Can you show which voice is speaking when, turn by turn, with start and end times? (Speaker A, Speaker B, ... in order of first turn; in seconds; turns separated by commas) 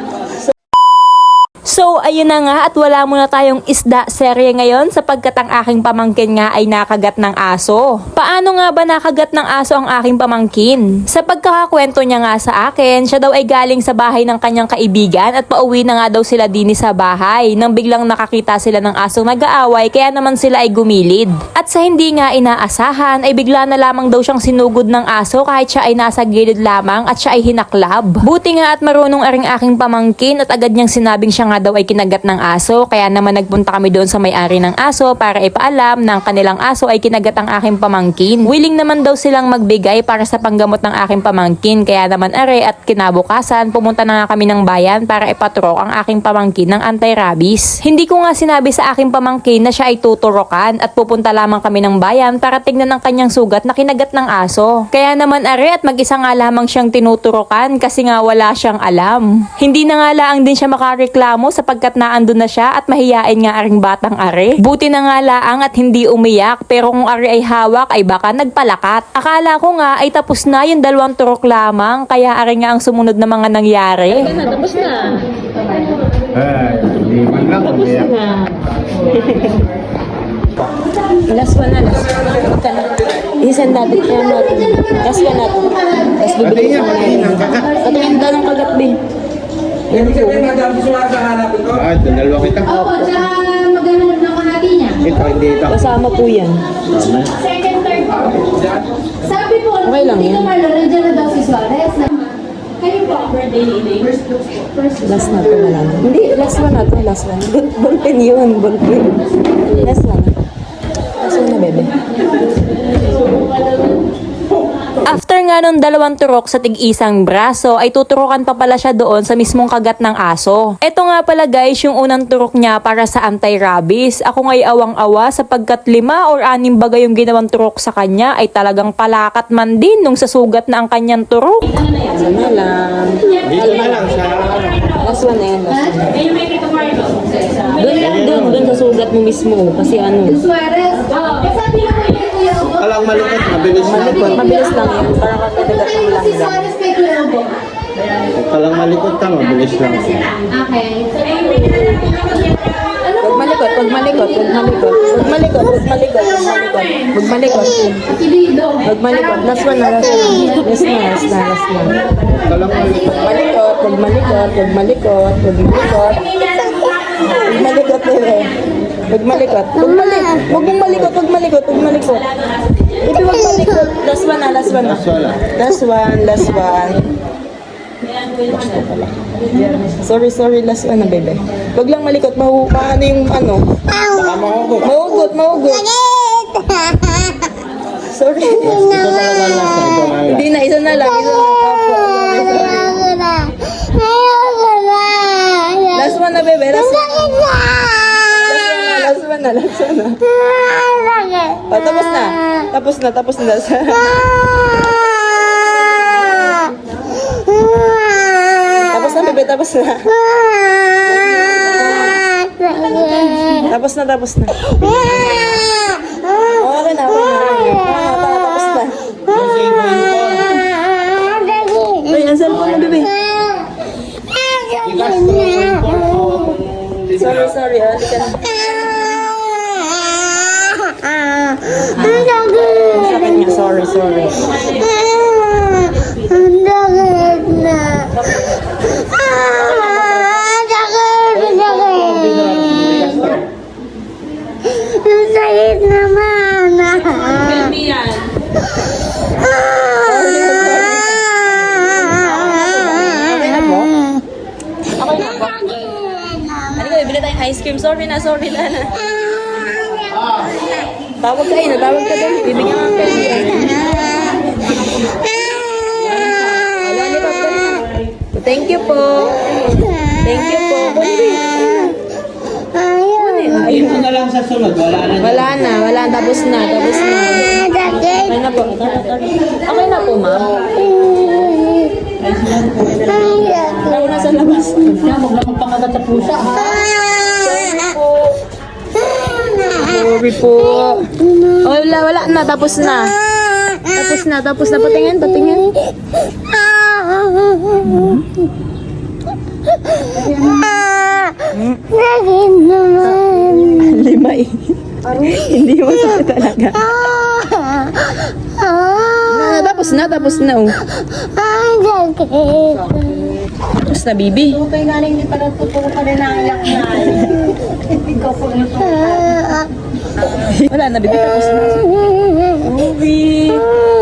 Speaker A: 1.7-74.3, Speaker B: 74.1-75.2, Speaker C: 76.5-77.6, Speaker B: 77.4-78.5, Speaker B: 79.0-79.6, Speaker B: 81.3-89.0, Speaker C: 86.5-87.7, Speaker B: 89.9-90.8, Speaker C: 91.2-92.8, Speaker B: 92.7-93.7, Speaker C: 95.0-95.8, Speaker B: 95.7-96.6, Speaker C: 96.9-97.3, Speaker B: 99.7-101.6, Speaker B: 105.0-110.3, Speaker B: 111.2-111.9, Speaker A: 115.0-131.7, Speaker B: 132.1-134.1, Speaker C: 133.5-134.8, Speaker B: 134.9-136.3, Speaker B: 137.6-140.6, Speaker C: 138.0-138.7, Speaker C: 142.6-144.5, Speaker B: 143.8-147.2, Speaker C: 148.3-150.4, Speaker B: 151.6-152.1, Speaker B: 153.1-158.2, Speaker B: 158.8-162.0, Speaker C: 162.4-163.1, Speaker B: 163.0-168.6, Speaker B: 169.1-172.3, Speaker B: 173.0-177.1, Speaker C: 175.0-175.4, Speaker B: 178.1-183.7, Speaker C: 184.1-184.8, Speaker B: 184.8-186.6, Speaker B: 188.1-188.9, Speaker C: 188.7-190.4, Speaker B: 190.2-193.5, Speaker B: 195.8-200.2, Speaker B: 201.6-204.2, Speaker B: 208.8-210.2, Speaker B: 213.6-214.7, Speaker B: 216.5-219.3, Speaker C: 219.3-220.4, Speaker B: 222.0-223.1, Speaker A: 222.2-222.9, Speaker C: 224.8-226.6, Speaker B: 227.1-228.4, Speaker B: 231.8-234.6, Speaker B: 239.8-240.4, Speaker C: 241.2-243.3, Speaker B: 246.8-248.1, Speaker B: 249.9-254.0, Speaker B: 254.9-260.1, Speaker B: 261.2-264.2, Speaker B: 266.7-271.9, Speaker B: 272.9-274.1, Speaker C: 274.1-275.2, Speaker B: 275.1-281.6, Speaker B: 282.2-288.4, Speaker D: 285.4-285.9, Speaker B: 289.5-293.1, Speaker B: 293.8-295.7, Speaker B: 297.9-298.2, Speaker B: 301.5-301.8, Speaker B: 303.0-306.9, Speaker B: 309.1-310.8, Speaker B: 313.8-314.7, Speaker D: 314.9-316.4, Speaker B: 316.4-317.5, Speaker D: 318.4-319.2, Speaker B: 320.3-323.7